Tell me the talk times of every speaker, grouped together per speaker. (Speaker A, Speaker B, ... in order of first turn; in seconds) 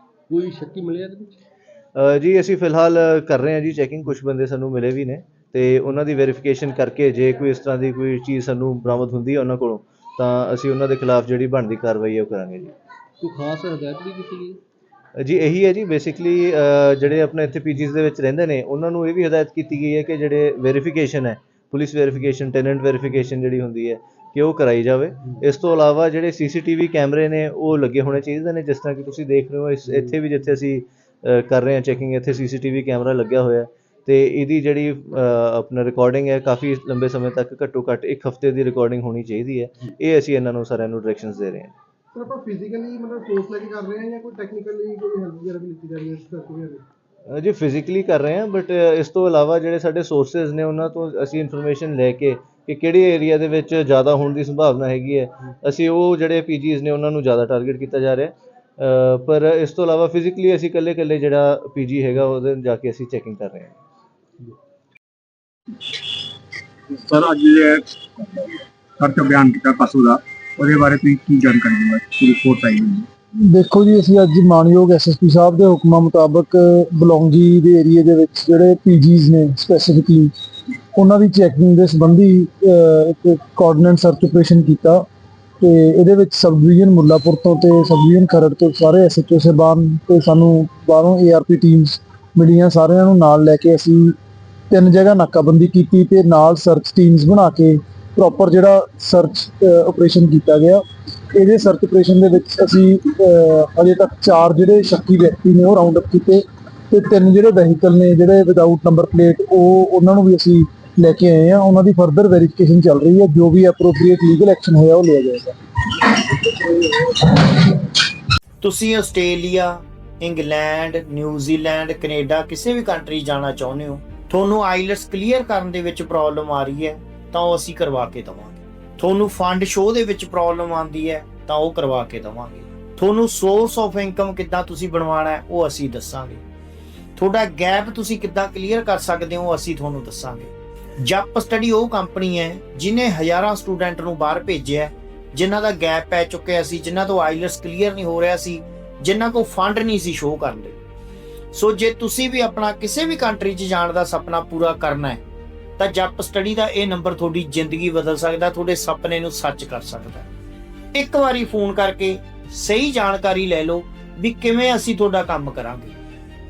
Speaker A: 0.3-1.4, 13.2-14.6
Speaker B: 1.9-12.7, 15.2-41.7, 47.3-63.8
Speaker C: 42.1-46.8
Speaker D: 66.9-73.1
Speaker E: 73.5-80.3, 80.9-85.0, 85.6-94.1, 94.7-115.5, 116.2-117.6
Speaker F: 118.6-136.4, 137.2-140.5, 141.0-150.8, 151.5-155.2, 155.8-160.3, 160.9-165.9